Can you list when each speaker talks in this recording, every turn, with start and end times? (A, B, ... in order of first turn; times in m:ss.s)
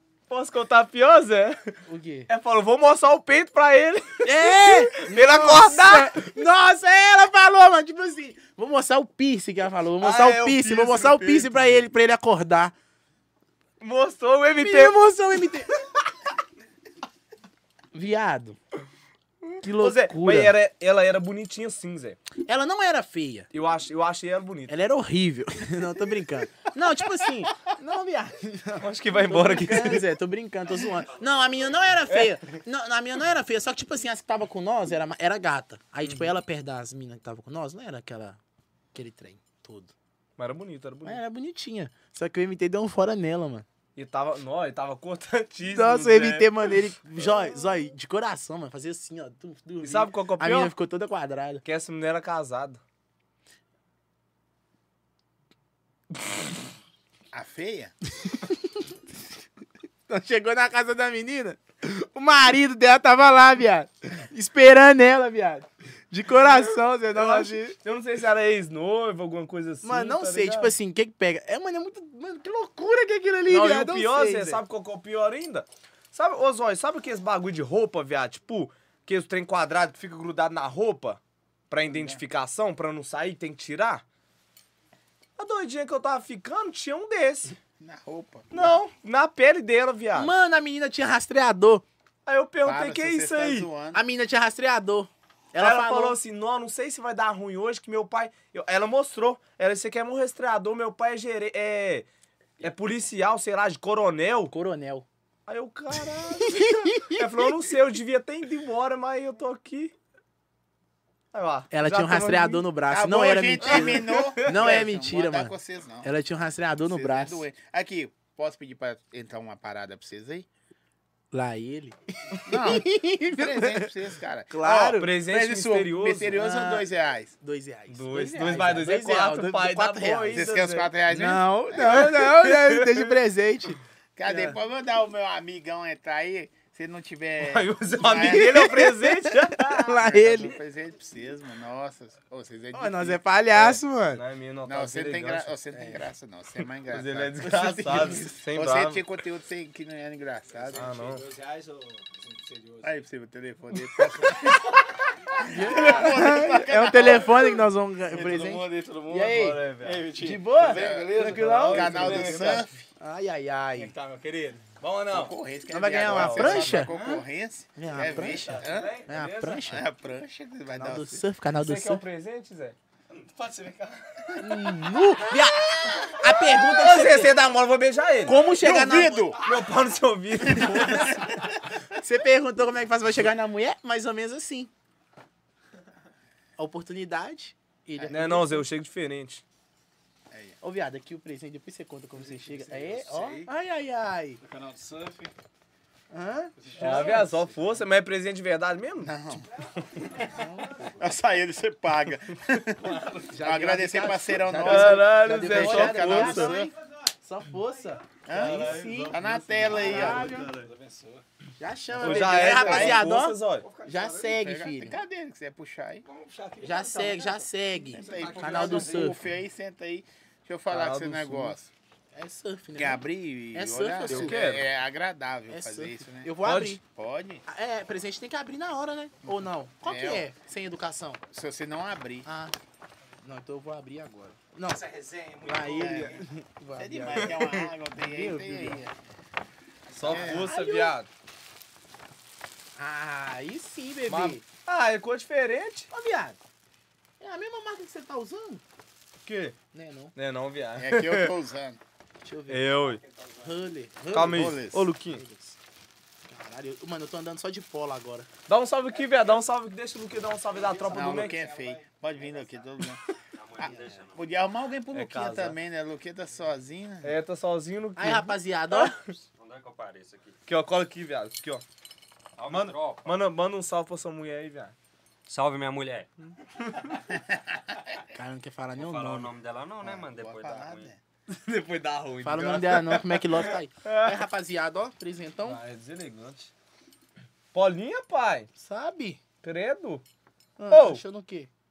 0:00.3-0:01.8 A
0:01.9-0:02.3 B
0:02.3-0:06.3 A
0:04.2-0:12.7 B
0:10.0-0:11.8 A
0:13.8-0:15.7 A
0:14.6-0:15.7 B
0:17.9-0:18.6 B
0:19.5-0:22.2 A
0:19.6-0:20.6 B
0:22.4-0:23.5 B
0:23.5-0:24.7 A
0:24.7-0:38.4 B
0:28.8-0:30.1 A
0:31.0-0:32.0 C
0:32.1-0:32.4 A
0:36.0-0:36.3 A
0:38.9-0:39.9 B
0:40.4-0:41.2 A
0:41.0-0:43.7 B
0:44.0-0:46.9 A
0:45.6-0:51.6 B
0:49.8-0:50.7 A
0:51.6-0:52.8 A
0:57.3-0:57.9 D
0:58.3-0:58.6 B
1:00.1-1:07.8 B
1:06.4-1:10.7 A
1:09.8-1:14.6 B
1:13.5-1:24.0 A
1:21.9-1:22.2 D
1:25.4-1:27.6 A
1:27.8-1:28.7 D
1:28.5-1:30.3 A
1:30.1-1:31.8 B
1:32.3-1:33.7 A
1:32.6-1:34.0 D
1:33.9-1:36.2 B
1:35.6-1:42.1 A
1:42.6-1:44.5 A
1:44.5-1:45.1 B
1:45.5-1:50.0 A
1:46.4-1:47.2 B
1:51.3-1:52.7 A
1:51.7-1:57.4 B
1:52.9-1:56.1 D
1:53.6-1:54.8 A
1:56.9-2:00.5 D
2:01.3-2:03.9 B
2:02.4-2:07.4 D
2:04.5-2:05.1 B
2:05.0-2:06.4 A
2:06.4-2:06.9 B
2:07.4-2:10.5 B
2:07.9-2:10.9 A
2:10.3-2:12.1 D
2:11.1-2:14.6 B
2:11.8-2:13.2 A
2:14.2-2:18.8 D
2:17.4-2:20.1 A
2:18.1-2:20.5 B
2:20.0-2:23.2 D
2:22.7-2:24.2 B
2:23.6-2:25.5 A
2:24.7-2:30.9 D
2:25.7-2:26.1 B
2:26.9-2:29.0 A
2:27.4-2:28.4 B
2:30.5-2:33.0 E
2:30.7-2:31.2 A
2:32.8-2:34.7 D
2:33.8-2:35.0 A
2:35.4-2:37.6 D
2:35.4-2:39.6 B
2:35.6-2:36.3 A
2:38.1-2:42.7 A
2:39.8-2:42.6 E
2:40.2-2:43.9 B
2:40.7-2:42.7 D
2:43.8-2:44.7 E
2:43.9-2:45.4 A
2:45.1-2:49.0 D
2:45.7-2:46.9 B
2:46.0-2:47.0 A
2:46.9-2:47.2 E
2:47.8-2:49.8 B
2:47.9-2:49.1 E
2:48.1-2:49.6 A
2:49.7-2:51.2 D
2:50.8-2:52.0 B
2:51.6-2:52.8 A
2:53.3-2:54.4 E
2:53.4-2:54.4 A
2:54.4-2:57.4 B
2:55.3-2:58.5 A
2:58.2-2:59.3 B
2:58.5-2:59.4 D
2:59.4-3:01.2 A
3:00.5-3:01.2 B
3:00.5-3:01.0 D
3:01.9-3:04.7 B
3:06.6-3:08.6 B
3:08.0-3:08.2 D
3:08.1-3:09.4 A
3:10.3-3:10.6 D
3:10.6-3:14.4 B
3:12.2-3:13.5 E
3:14.4-3:15.3 E
3:16.1-3:17.1 B
3:16.6-3:17.8 E
3:16.8-3:19.2 A
3:19.0-3:19.5 D
3:19.6-3:21.0 E
3:20.3-3:20.9 B
3:21.0-3:26.7 D
3:22.8-3:23.2 A
3:22.9-3:23.2 E
3:23.3-3:29.2 B
3:24.6-3:26.6 A
3:26.4-3:27.1 E
3:27.7-3:31.2 E
3:28.3-3:30.3 D
3:28.3-3:30.7 A
3:29.7-3:30.5 B
3:31.6-3:35.0 B
3:32.0-3:33.7 A
3:32.0-3:33.1 D
3:33.6-3:34.4 E
3:34.2-3:36.0 D
3:36.0-3:39.2 E
3:36.6-3:39.2 B
3:37.9-3:41.7 D
3:40.7-3:41.6 A
3:42.1-3:44.4 B
3:42.8-3:47.4 D
3:44.1-3:44.7 A
3:45.5-3:46.8 B
3:46.4-3:46.8 A
3:47.5-3:51.2 B
3:49.8-3:50.3 D
3:51.3-3:52.3 D
3:52.3-3:52.6 B
3:53.2-3:54.9 B
3:54.6-3:56.3 E
3:55.4-3:58.9 B
3:55.7-3:56.2 D
3:56.8-3:58.8 D
3:57.2-3:57.5 A
3:59.9-4:01.1 A
4:00.0-4:00.4 E
4:00.1-4:00.5 D
4:00.1-4:01.0 B
4:02.8-4:04.4 B
4:04.1-4:05.9 A
4:05.9-4:06.4 B
4:07.2-4:08.6 B
4:09.2-4:09.6 A
4:09.7-4:10.1 B
4:10.2-4:11.4 A
4:10.8-4:11.8 D
4:12.2-4:12.8 B
4:12.5-4:13.0 A
4:12.8-4:13.7 E
4:13.4-4:15.6 B
4:14.1-4:15.2 A
4:14.1-4:14.9 D
4:16.2-4:18.3 B
4:18.5-4:21.4 A
4:18.9-4:19.5 E
4:20.4-4:22.8 E
4:20.9-4:23.0 D
4:23.3-4:24.3 C
4:23.6-4:27.2 D
4:24.9-4:25.6 A
4:27.0-4:29.1 A
4:28.0-4:29.0 B
4:29.4-4:30.4 C
4:30.5-4:31.6 A
4:32.4-4:33.2 C
4:32.5-4:34.8 A
4:35.3-4:36.1 C
4:36.6-4:37.0 A
4:38.1-4:39.3 B
4:38.8-4:40.9 C
4:39.8-4:41.0 D
4:41.3-4:44.2 A
4:42.2-4:45.6 B
4:45.4-4:46.5 A
4:47.5-4:48.5 A
4:48.6-4:49.2 B
4:49.4-4:50.0 A
4:50.6-4:51.5 B
4:50.7-4:51.0 A